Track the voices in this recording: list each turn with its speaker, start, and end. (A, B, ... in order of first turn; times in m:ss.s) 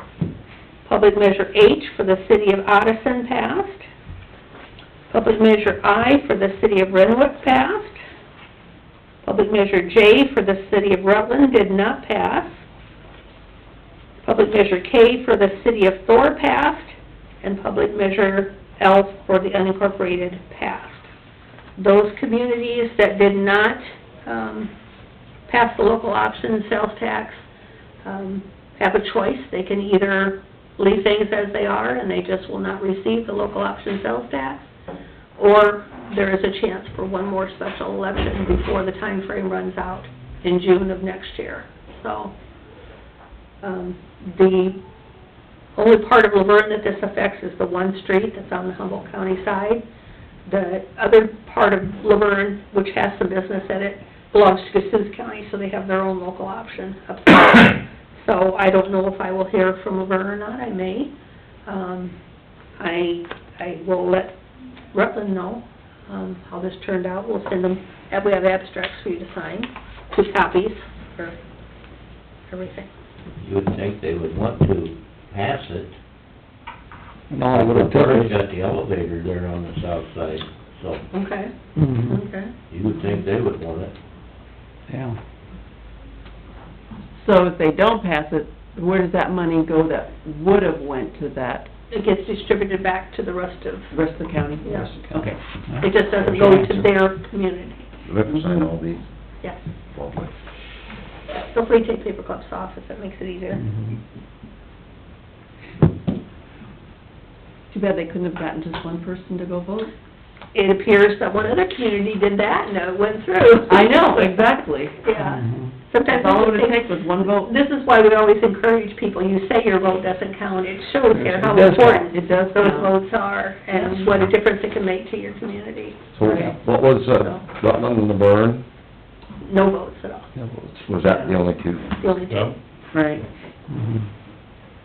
0:00.8-0:03.9 A
0:05.1-0:08.0 A
0:09.2-0:12.6 A
0:14.2-0:21.1 A
0:21.8-0:24.7 A
0:25.5-0:27.4 A
0:28.0-0:34.6 A
0:35.4-0:42.3 A
0:43.6-0:44.8 A
0:45.8-0:49.8 A
0:50.5-1:01.1 A
1:01.7-1:02.2 A
1:02.8-1:04.4 A
1:04.9-1:11.4 A
1:12.5-1:12.9 A
1:13.4-1:15.9 B
1:17.3-1:18.3 C
1:17.5-1:21.0 B
1:21.1-1:22.5 A
1:21.8-1:22.2 C
1:22.7-1:23.9 B
1:24.9-1:25.2 C
1:27.2-1:31.7 D
1:31.9-1:33.9 A
1:33.9-1:35.4 D
1:34.6-1:35.0 A
1:34.7-1:36.8 C
1:35.8-1:37.9 A
1:38.1-1:39.0 E
1:39.9-1:40.3 E
1:41.3-1:43.8 A
1:47.7-1:49.9 D
1:50.5-1:54.4 A
1:53.7-1:55.0 D
1:55.0-2:06.1 A
1:55.2-1:55.7 C
1:56.0-1:57.5 D
2:01.1-2:02.0 C
2:02.0-2:03.0 D
2:03.7-2:04.1 D
2:06.1-2:08.6 E
2:06.2-2:06.5 D
2:09.4-2:10.3 A
2:10.3-2:10.8 C
2:10.8-2:11.8 E
2:12.0-2:12.6 A
2:12.9-2:13.2 D
2:13.7-2:14.1 C